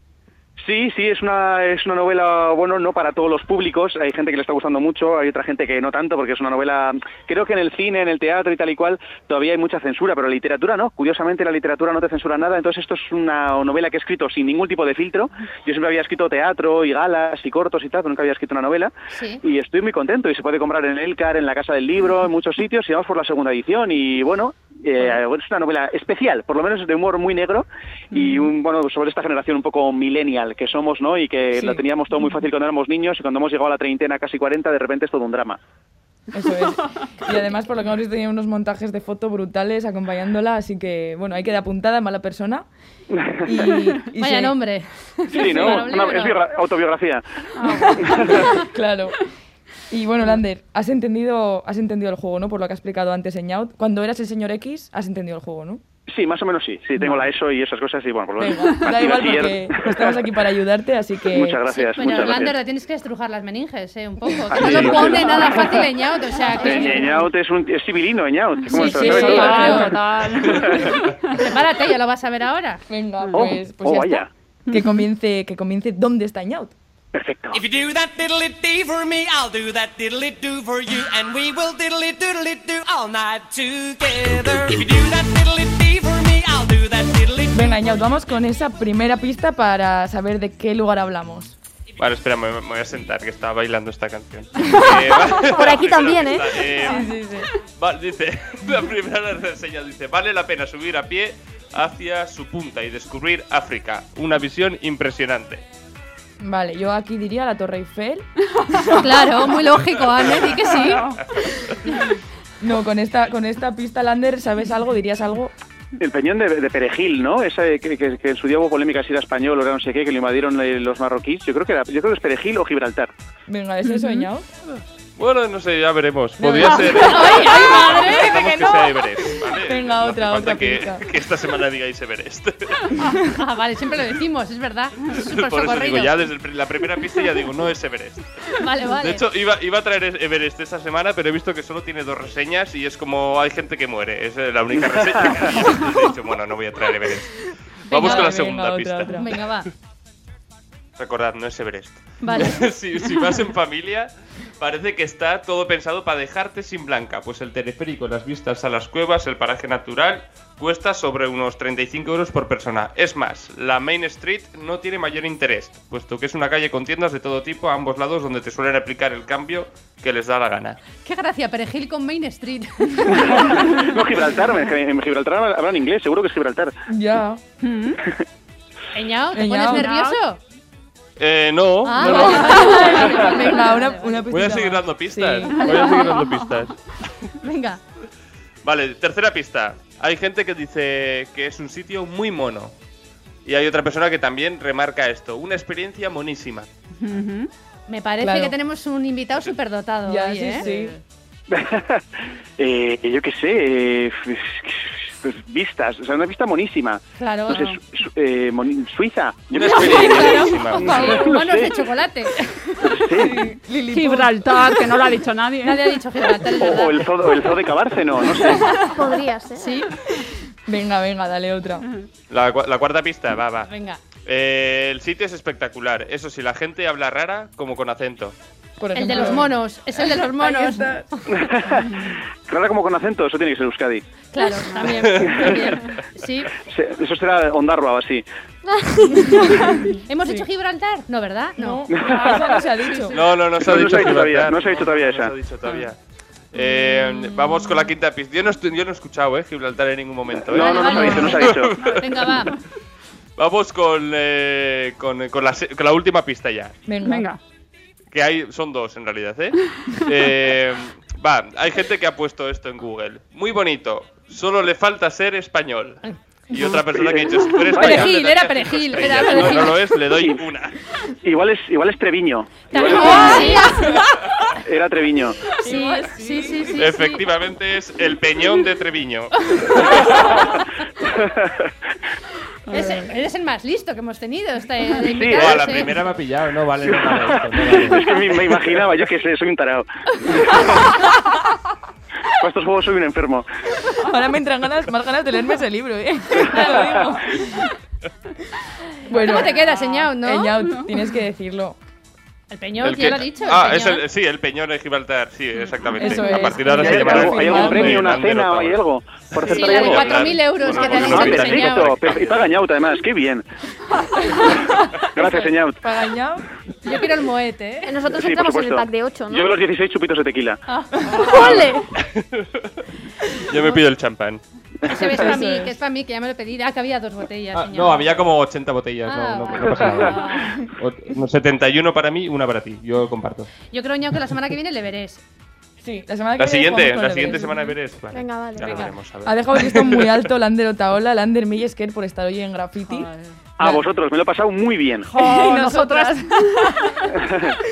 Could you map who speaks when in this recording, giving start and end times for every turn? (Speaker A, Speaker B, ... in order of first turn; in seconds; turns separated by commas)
Speaker A: 0.6-35.6, Speaker B: 19.1-19.4, Speaker C: 31.5-31.8, Speaker C: 36.3-42.7, Speaker A: 43.1-43.5, Speaker C: 43.4-44.6, Speaker B: 44.2-46.4, Speaker C: 45.3-45.9, Speaker A: 45.4-48.5, Speaker D: 47.6-48.1, Speaker C: 48.1-49.2, Speaker C: 49.9-55.8, Speaker A: 56.1-60.2, Speaker C: 57.0-57.3, Speaker C: 58.4-61.6, Speaker A: 61.3-62.5, Speaker B: 61.7-67.3, Speaker A: 64.5-65.9, Speaker E: 64.6-65.1, Speaker A: 66.6-69.8, Speaker D: 66.6-67.0, Speaker C: 68.7-70.0, Speaker D: 68.7-71.4, Speaker B: 69.4-69.9, Speaker A: 70.6-70.9, Speaker B: 71.3-72.8, Speaker C: 72.9-76.8, Speaker A: 73.3-74.3, Speaker A: 77.1-77.6, Speaker F: 77.5-87.5, Speaker C: 87.5-91.5, Speaker E: 92.0-97.1, Speaker G: 95.4-96.6, Speaker C: 96.7-97.5, Speaker E: 97.8-105.6, Speaker C: 106.4-109.0, Speaker B: 109.0-111.1, Speaker E: 109.7-111.7, Speaker C: 112.6-115.5, Speaker A: 116.0-123.1, Speaker C: 123.5-124.5, Speaker E: 125.2-133.2, Speaker C: 126.4-131.0, Speaker B: 126.6-128.3, Speaker B: 133.3-136.3, Speaker E: 135.1-138.3, Speaker B: 138.6-139.2, Speaker E: 139.0-149.6, Speaker C: 147.9-149.3, Speaker B: 147.9-148.3, Speaker B: 149.1-149.7, Speaker E: 151.0-170.8, Speaker B: 152.2-152.6, Speaker B: 171.0-173.9, Speaker A: 173.1-176.7, Speaker C: 176.9-177.4, Speaker D: 177.6-178.0, Speaker B: 178.9-180.4, Speaker C: 179.3-179.9, Speaker D: 179.7-180.2, Speaker E: 181.2-183.5, Speaker B: 181.8-184.2, Speaker C: 182.0-185.9, Speaker E: 184.3-187.3, Speaker B: 185.7-186.1, Speaker D: 185.8-186.6, Speaker B: 187.4-187.8, Speaker E: 188.6-192.8, Speaker E: 193.5-196.7, Speaker D: 197.0-197.5, Speaker B: 197.9-200.7, Speaker C: 198.2-198.5, Speaker C: 200.0-201.0, Speaker D: 200.6-201.0, Speaker A: 201.5-202.0, Speaker A: 202.6-211.7, Speaker B: 207.2-207.8, Speaker E: 209.5-211.4, Speaker B: 209.6-212.5, Speaker C: 210.9-211.3, Speaker A: 212.8-213.3, Speaker C: 213.1-214.7, Speaker D: 213.8-216.0, Speaker B: 215.6-217.5, Speaker A: 216.6-218.9, Speaker D: 218.4-218.8, Speaker G: 218.9-219.7, Speaker C: 219.6-221.9, Speaker E: 222.3-228.4, Speaker B: 223.7-224.0, Speaker C: 228.8-229.6, Speaker B: 228.9-231.5, Speaker C: 230.1-231.0, Speaker A: 231.4-234.0, Speaker B: 234.3-236.5, Speaker D: 234.7-235.1, Speaker E: 234.9-236.0, Speaker A: 235.2-235.6, Speaker A: 236.6-238.2, Speaker G: 238.7-239.8, Speaker C: 239.4-240.5, Speaker B: 240.1-243.4, Speaker C: 241.6-243.2, Speaker A: 241.9-242.6, Speaker E: 243.1-246.0, Speaker A: 243.6-245.3, Speaker D: 245.6-245.9, Speaker E: 246.5-252.5, Speaker C: 246.5-247.9, Speaker A: 250.4-251.7, Speaker B: 250.5-252.5, Speaker D: 251.7-252.0, Speaker E: 253.4-256.9, Speaker C: 256.9-257.3, Speaker D: 257.0-257.4, Speaker E: 258.1-270.8, Speaker B: 266.1-266.6, Speaker A: 266.6-268.1, Speaker B: 267.7-269.9, Speaker A: 269.4-270.4, Speaker A: 271.2-273.6, Speaker B: 272.7-273.9, Speaker C: 273.2-274.0, Speaker A: 274.6-275.4, Speaker C: 275.5-276.9, Speaker B: 275.6-277.2, Speaker E: 276.7-280.5, Speaker B: 279.5-280.2, Speaker A: 281.0-281.7, Speaker D: 282.7-283.1, Speaker B: 282.7-286.1, Speaker A: 285.1-285.7, Speaker E: 285.3-288.9, Speaker A: 286.9-291.0, Speaker C: 290.7-291.3, Speaker A: 292.4-293.5, Speaker C: 294.0-297.7, Speaker C: 299.0-301.8, Speaker B: 299.2-300.5, Speaker D: 299.2-299.9, Speaker D: 300.6-301.0, Speaker B: 302.5-304.0, Speaker E: 302.8-312.6, Speaker C: 305.9-308.1, Speaker A: 306.7-313.5, Speaker B: 309.5-312.2, Speaker A: 315.1-315.8, Speaker C: 315.2-316.4, Speaker B: 316.8-318.0, Speaker G: 317.8-319.5, Speaker A: 318.1-320.6, Speaker B: 320.7-321.3, Speaker E: 321.2-322.7, Speaker G: 321.2-321.8, Speaker E: 323.4-324.4, Speaker B: 324.9-328.1, Speaker C: 325.0-325.8, Speaker E: 327.5-333.5, Speaker B: 329.0-330.6, Speaker B: 333.7-335.2, Speaker C: 335.8-337.7, Speaker E: 336.4-340.3, Speaker G: 338.1-338.9, Speaker B: 338.6-338.9, Speaker C: 339.2-343.1, Speaker D: 342.9-343.3, Speaker A: 343.6-345.1, Speaker C: 343.6-343.9, Speaker D: 345.1-346.7, Speaker C: 345.1-347.1